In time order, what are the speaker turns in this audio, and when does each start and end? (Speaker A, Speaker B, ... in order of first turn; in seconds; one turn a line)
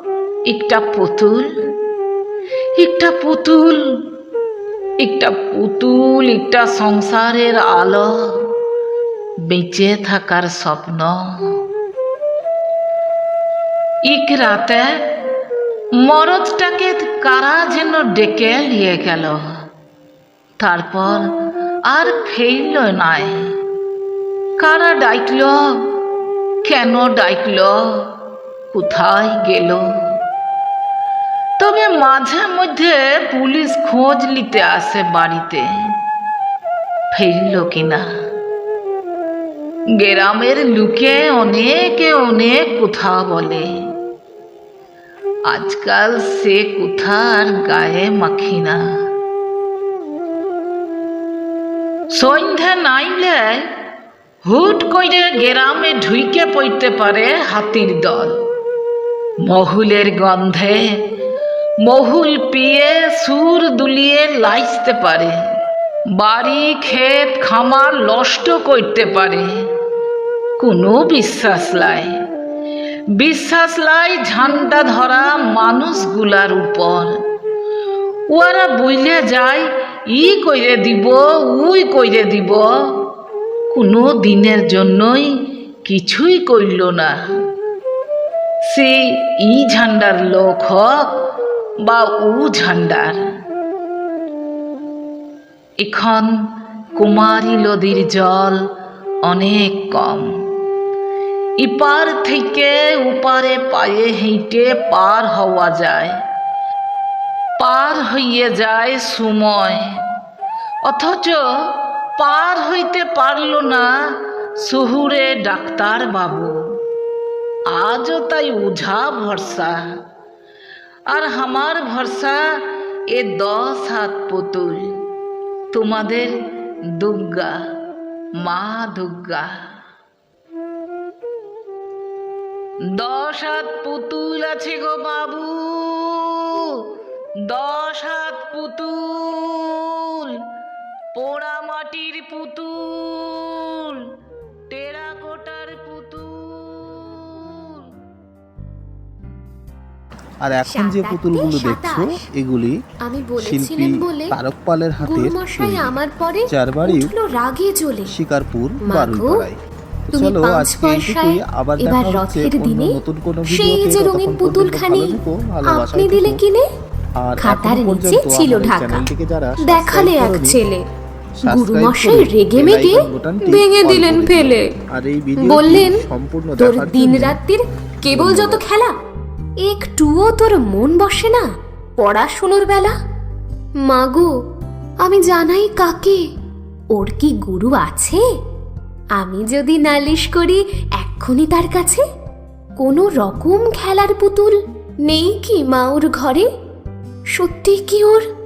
Speaker A: 0.5-1.5
Speaker A: 2.8-4.0
Speaker A: 5.0-8.5
Speaker A: 9.4-11.6
Speaker A: 14.0-15.0
Speaker A: 16.0-19.4
Speaker A: 20.6-21.3
Speaker A: 21.9-23.5
Speaker A: 24.6-25.9
Speaker A: 26.6-28.2
Speaker A: 28.7-29.9
Speaker A: 31.6-35.9
Speaker A: 37.1-38.0
Speaker A: 40.0-43.7
Speaker A: 45.5-48.8
Speaker A: 52.1-53.7
Speaker A: 54.5-58.4
Speaker A: 59.4-61.0
Speaker A: 61.8-65.4
Speaker A: 66.1-69.5
Speaker A: 70.6-72.1
Speaker A: 73.2-77.2
Speaker A: 78.3-82.7
Speaker A: 83.7-85.3
Speaker A: 85.8-87.2
Speaker A: 88.7-90.9
Speaker A: 91.8-93.2
Speaker A: 95.8-96.3
Speaker A: 97.0-98.6
Speaker A: 99.2-100.3
Speaker A: 101.6-106.2
Speaker A: 107.6-110.0
Speaker A: 110.8-116.6
Speaker A: 117.7-119.8
Speaker A: 121.1-124.9
Speaker A: 125.7-126.3
Speaker A: 127.0-127.6
Speaker A: 128.4-129.5
Speaker A: 132.9-136.9
Speaker A: 137.5-140.4
Speaker A: 141.1-144.0
Speaker A: 144.7-147.9
Speaker B: 150.4-152.8
Speaker C: 150.7-152.2
Speaker C: 153.0-154.4
Speaker B: 153.4-156.0
Speaker C: 155.0-158.2
Speaker B: 156.5-157.1
Speaker B: 158.1-166.4
Speaker C: 158.8-159.5
Speaker C: 160.1-166.7
Speaker B: 167.2-170.6
Speaker C: 167.4-169.1
Speaker C: 169.6-170.8
Speaker B: 171.4-177.4
Speaker C: 171.4-174.7
Speaker C: 175.4-176.0
Speaker C: 176.6-178.9
Speaker B: 178.1-178.6
Speaker C: 179.6-181.5
Speaker C: 182.0-182.9
Speaker C: 183.8-184.3
Speaker C: 185.0-186.2
Speaker C: 186.9-188.2
Speaker C: 189.2-192.0
Speaker C: 192.8-196.5
Speaker C: 197.3-198.2